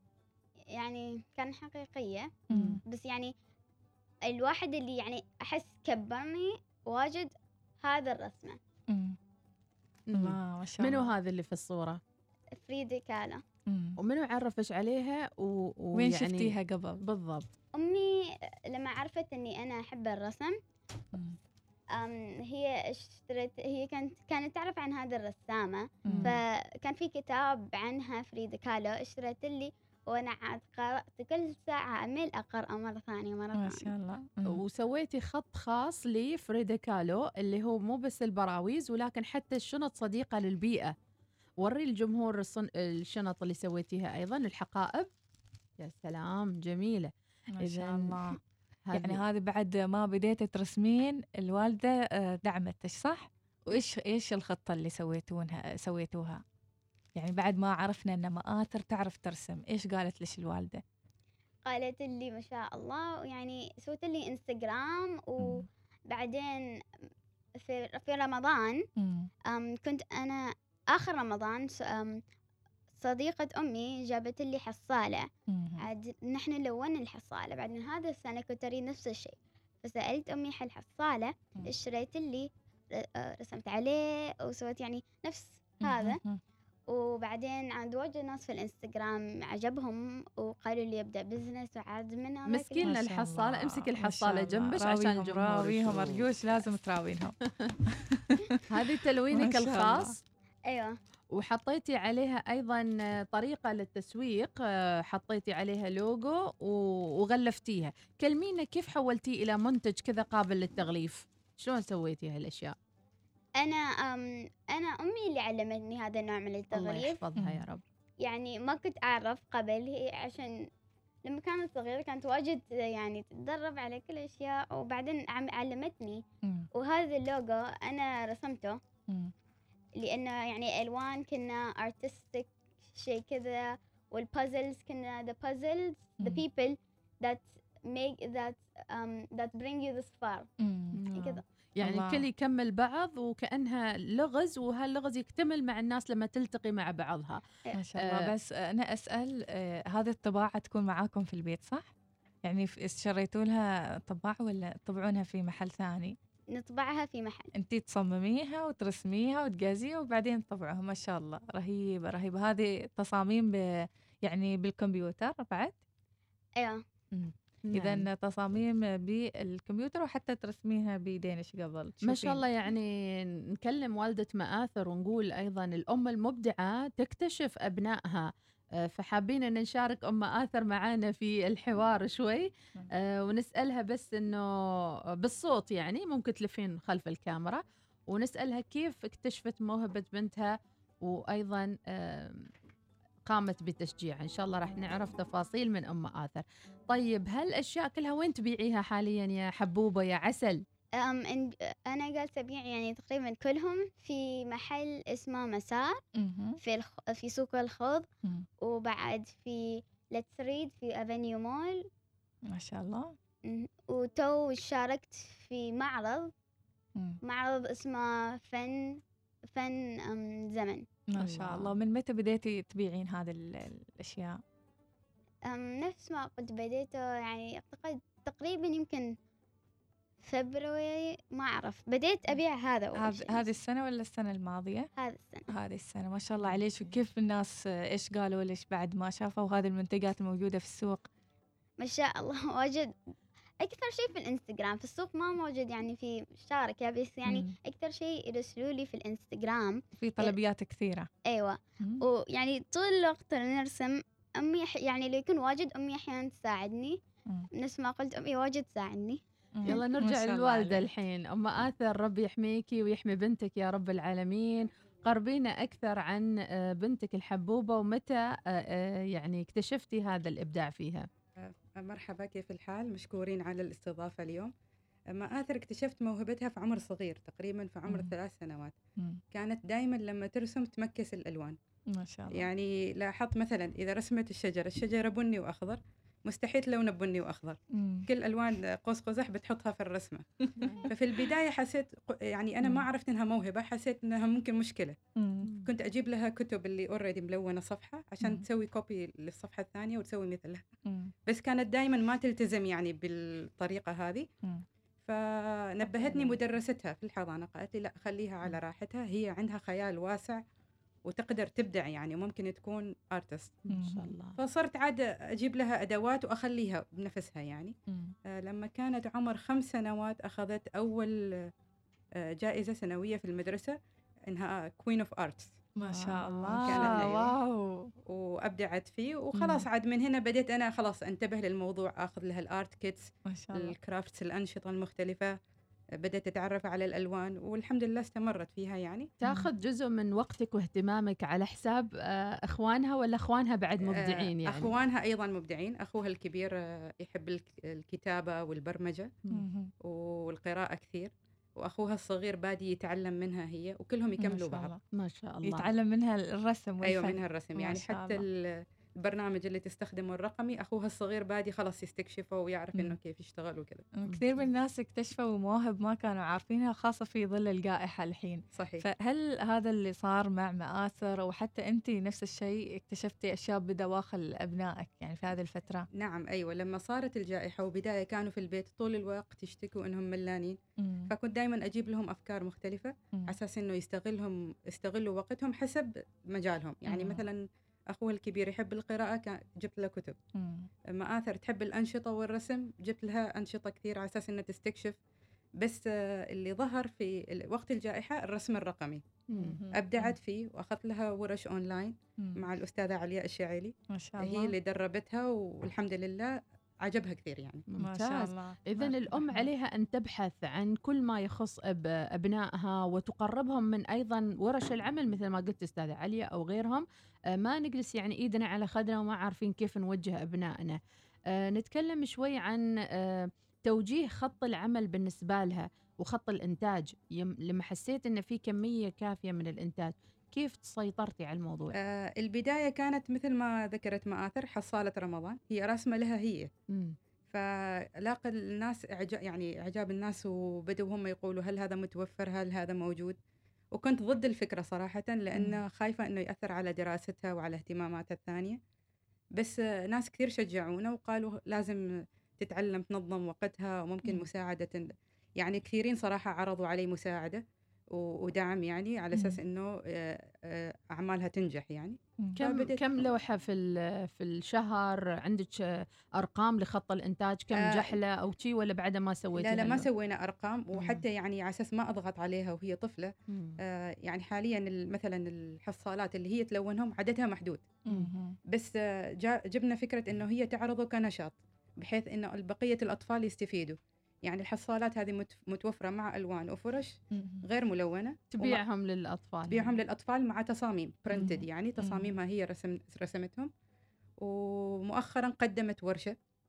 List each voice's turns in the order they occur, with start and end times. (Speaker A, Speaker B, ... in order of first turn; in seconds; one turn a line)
Speaker A: 0.7-2.3
Speaker B: 2.5-2.8
Speaker C: 2.5-2.8
Speaker A: 2.9-3.3
Speaker A: 4.3-7.3
Speaker A: 7.8-8.6
Speaker B: 8.9-9.2
Speaker C: 10.1-12.0
Speaker B: 10.2-11.1
Speaker A: 12.6-13.4
Speaker B: 13.7-13.9
Speaker C: 14.0-17.5
Speaker B: 16.0-17.0
Speaker A: 17.8-20.6
Speaker A: 21.9-33.9
Speaker B: 26.1-26.3
Speaker C: 26.1-26.4
Speaker B: 33.5-34.5
Speaker C: 34.5-40.9
Speaker C: 41.6-45.1
Speaker C: 45.8-47.1
Speaker B: 47.6-48.4
Speaker C: 47.6-48.4
Speaker C: 48.9-49.2
Speaker B: 48.9-56.4
Speaker B: 57.1-60.8
Speaker A: 61.6-66.6
Speaker A: 67.6-68.7
Speaker B: 69.0-69.3
Speaker A: 69.5-72.2
Speaker A: 73.0-75.3
Speaker B: 75.5-75.9
Speaker A: 75.8-86.2
Speaker B: 85.8-86.4
Speaker A: 86.9-92.9
Speaker C: 92.5-96.3
Speaker B: 92.8-97.3
Speaker B: 97.9-98.6
Speaker C: 98.7-100.2
Speaker B: 99.3-100.1
Speaker A: 100.7-100.9
Speaker C: 101.3-112.7
Speaker A: 113.6-117.2
Speaker C: 116.7-117.8
Speaker A: 118.2-120.5
Speaker A: 121.3-126.2
Speaker A: 126.7-128.8
Speaker A: 130.0-140.5
Speaker B: 140.6-140.9
Speaker C: 141.0-147.4
Speaker A: 141.2-141.4
Speaker B: 141.8-142.2
Speaker B: 147.8-151.9
Speaker C: 148.1-148.3
Speaker B: 152.4-156.1
Speaker A: 156.5-157.5
Speaker B: 157.6-163.6
Speaker B: 164.2-165.8
Speaker B: 167.1-172.4
Speaker C: 167.7-168.1
Speaker C: 172.1-178.3
Speaker C: 178.8-184.5
Speaker C: 185.2-192.5
Speaker C: 193.3-200.6
Speaker A: 201.0-206.0
Speaker B: 206.2-206.6
Speaker A: 206.6-208.1
Speaker A: 208.6-211.8
Speaker B: 212.5-213.1
Speaker A: 213.5-216.3
Speaker A: 217.2-219.0
Speaker A: 219.5-220.8
Speaker B: 221.1-224.4
Speaker C: 221.2-221.7
Speaker A: 225.5-229.1
Speaker A: 230.2-233.3
Speaker B: 233.0-234.9
Speaker A: 235.0-235.4
Speaker B: 235.5-241.1
Speaker A: 241.8-242.9
Speaker A: 243.6-250.3
Speaker B: 247.3-247.5
Speaker B: 250.0-251.1
Speaker A: 251.3-257.0
Speaker A: 257.6-259.2
Speaker B: 259.6-260.9
Speaker C: 259.6-271.1
Speaker D: 271.4-274.5
Speaker D: 275.1-278.8
Speaker D: 279.3-281.6
Speaker B: 281.9-282.5
Speaker D: 282.3-290.2
Speaker B: 287.7-288.1
Speaker D: 290.9-294.9
Speaker B: 295.2-295.5
Speaker D: 295.6-300.6
Speaker D: 301.3-304.3
Speaker D: 305.1-310.4
Speaker C: 306.0-306.3
Speaker D: 311.1-313.6
Speaker C: 313.7-314.4
Speaker B: 313.7-314.1
Speaker D: 314.4-317.7
Speaker D: 318.4-321.1
Speaker D: 322.4-323.7
Speaker D: 324.3-325.6
Speaker B: 325.8-327.8
Speaker C: 325.9-327.0
Speaker D: 326.6-327.3
Speaker D: 328.1-335.3
Speaker B: 329.4-329.6
Speaker B: 333.3-333.7
Speaker D: 336.0-339.1
Speaker C: 339.2-344.7
Speaker D: 343.9-349.1
Speaker B: 349.3-349.7
Speaker D: 349.8-354.7
Speaker B: 354.2-354.8
Speaker C: 355.0-355.7
Speaker B: 355.5-358.2
Speaker D: 356.8-358.3
Speaker D: 359.0-363.8
Speaker C: 364.1-364.4
Speaker B: 364.1-375.8
Speaker D: 368.6-368.8
Speaker D: 376.0-380.6
Speaker D: 381.1-387.4
Speaker B: 386.9-387.2
Speaker D: 387.9-390.1
Speaker B: 390.4-390.7
Speaker D: 391.0-394.9
Speaker D: 396.3-399.0
Speaker C: 399.3-399.6
Speaker B: 399.4-400.1
Speaker D: 399.7-406.3
Speaker B: 403.9-404.5
Speaker D: 406.8-407.6
Speaker C: 407.7-416.8
Speaker B: 407.8-409.5
Speaker C: 417.3-420.8
Speaker C: 421.3-431.7
Speaker D: 431.7-436.5
Speaker D: 438.0-443.2
Speaker D: 443.7-448.6
Speaker D: 449.4-451.8
Speaker D: 452.4-454.8
Speaker D: 455.4-457.4
Speaker D: 457.9-462.8
Speaker C: 462.4-465.6
Speaker C: 466.2-469.9
Speaker D: 469.4-473.1
Speaker C: 473.3-473.6
Speaker D: 473.6-477.7
Speaker B: 477.9-478.3
Speaker D: 479.2-488.6
Speaker B: 487.1-487.4
Speaker C: 488.3-489.8
Speaker D: 489.5-493.5
Speaker B: 491.1-492.1
Speaker D: 494.2-496.1